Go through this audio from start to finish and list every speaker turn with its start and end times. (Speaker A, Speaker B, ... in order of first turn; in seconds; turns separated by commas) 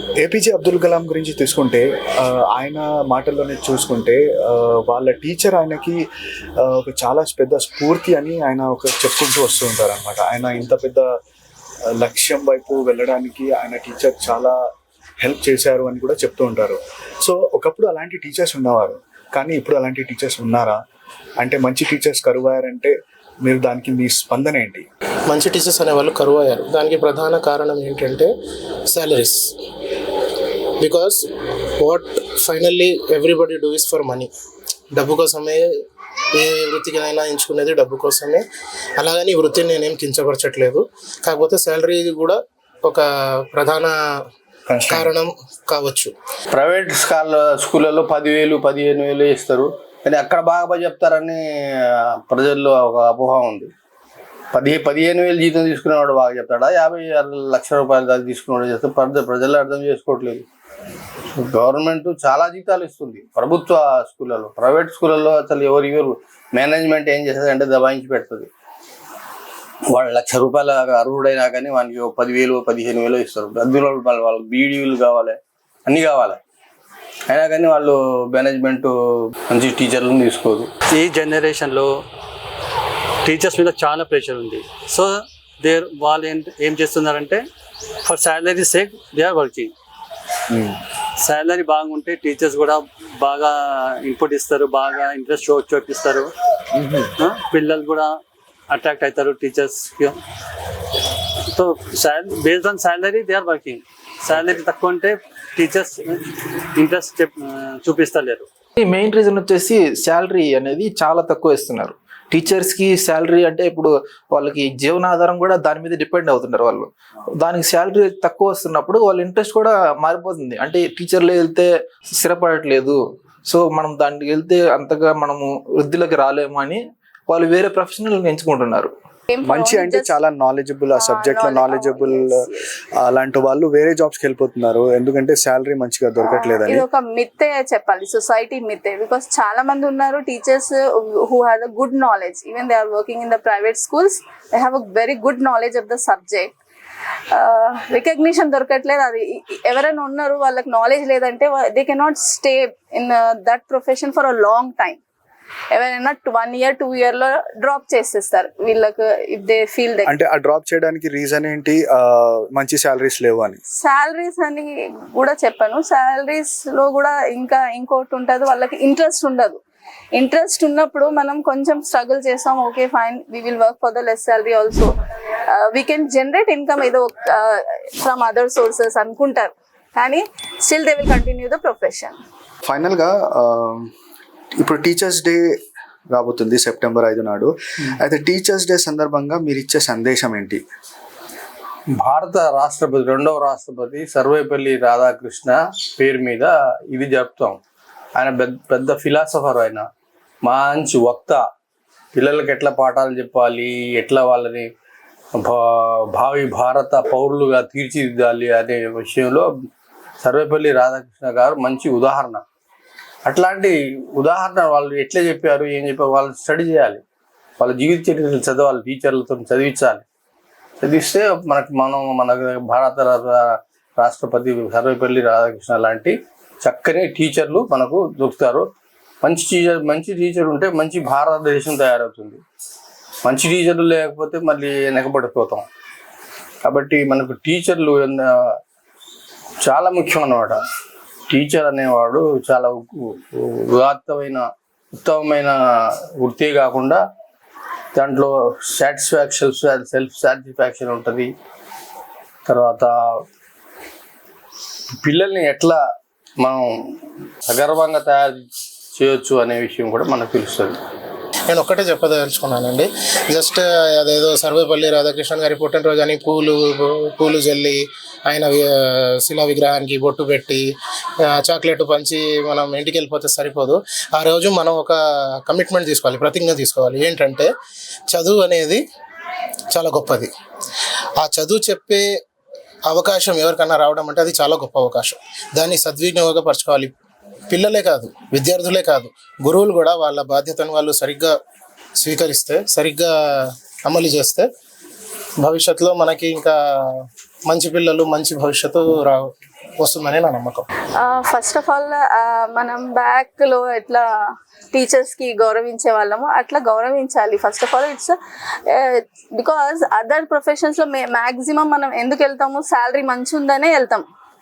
Speaker A: 0.2-6.0, Speaker A: 6.6-11.1, Speaker A: 12.0-14.6, Speaker A: 15.2-20.8, Speaker A: 21.4-24.8, Speaker B: 25.3-28.3, Speaker B: 28.9-29.5, Speaker B: 30.8-31.2, Speaker B: 31.8-34.3, Speaker B: 34.9-35.7, Speaker B: 36.3-38.4, Speaker B: 39.0-43.9, Speaker A: 44.7-45.1, Speaker B: 44.9-46.1, Speaker C: 46.5-53.7, Speaker C: 54.5-60.4, Speaker C: 61.3-68.5, Speaker C: 69.9-76.4, Speaker C: 77.3-78.9, Speaker C: 79.5-80.7, Speaker D: 80.9-81.9, Speaker D: 83.2-87.4, Speaker D: 88.0-89.7, Speaker D: 91.2-96.3, Speaker A: 96.8-97.1, Speaker D: 97.2-98.1, Speaker D: 98.7-100.2, Speaker D: 101.5-108.5, Speaker E: 108.8-128.9, Speaker F: 129.3-130.2, Speaker A: 129.4-132.4, Speaker F: 130.9-132.6, Speaker A: 133.0-136.8, Speaker F: 136.2-146.5, Speaker F: 147.3-155.0, Speaker F: 155.7-160.2, Speaker A: 160.1-163.6, Speaker F: 163.8-169.6, Speaker F: 170.2-174.9, Speaker F: 175.5-182.2, Speaker A: 182.6-183.9, Speaker A: 184.6-185.4, Speaker A: 186.1-190.6, Speaker C: 191.9-197.6, Speaker C: 198.1-199.8, Speaker C: 200.4-201.4, Speaker C: 202.1-204.7, Speaker C: 205.4-209.5, Speaker C: 210.2-212.4, Speaker C: 213.2-217.0, Speaker C: 217.6-220.0, Speaker C: 220.8-228.6, Speaker C: 229.2-232.4, Speaker C: 233.2-235.6, Speaker C: 236.6-238.3, Speaker C: 239.6-240.6, Speaker C: 241.3-244.4, Speaker C: 245.0-245.5, Speaker C: 246.2-247.0, Speaker C: 247.9-251.3, Speaker C: 252.4-252.9, Speaker C: 255.0-255.8, Speaker C: 256.4-256.6, Speaker C: 257.5-258.4, Speaker C: 258.9-260.8, Speaker B: 261.5-268.7, Speaker B: 269.2-270.6, Speaker B: 271.2-277.5, Speaker B: 278.1-278.8, Speaker B: 279.7-280.3, Speaker B: 281.2-282.1, Speaker B: 282.9-286.9, Speaker B: 287.5-291.3, Speaker B: 292.0-294.5, Speaker B: 295.4-300.6, Speaker F: 300.9-304.1, Speaker F: 304.7-308.1, Speaker F: 308.7-314.0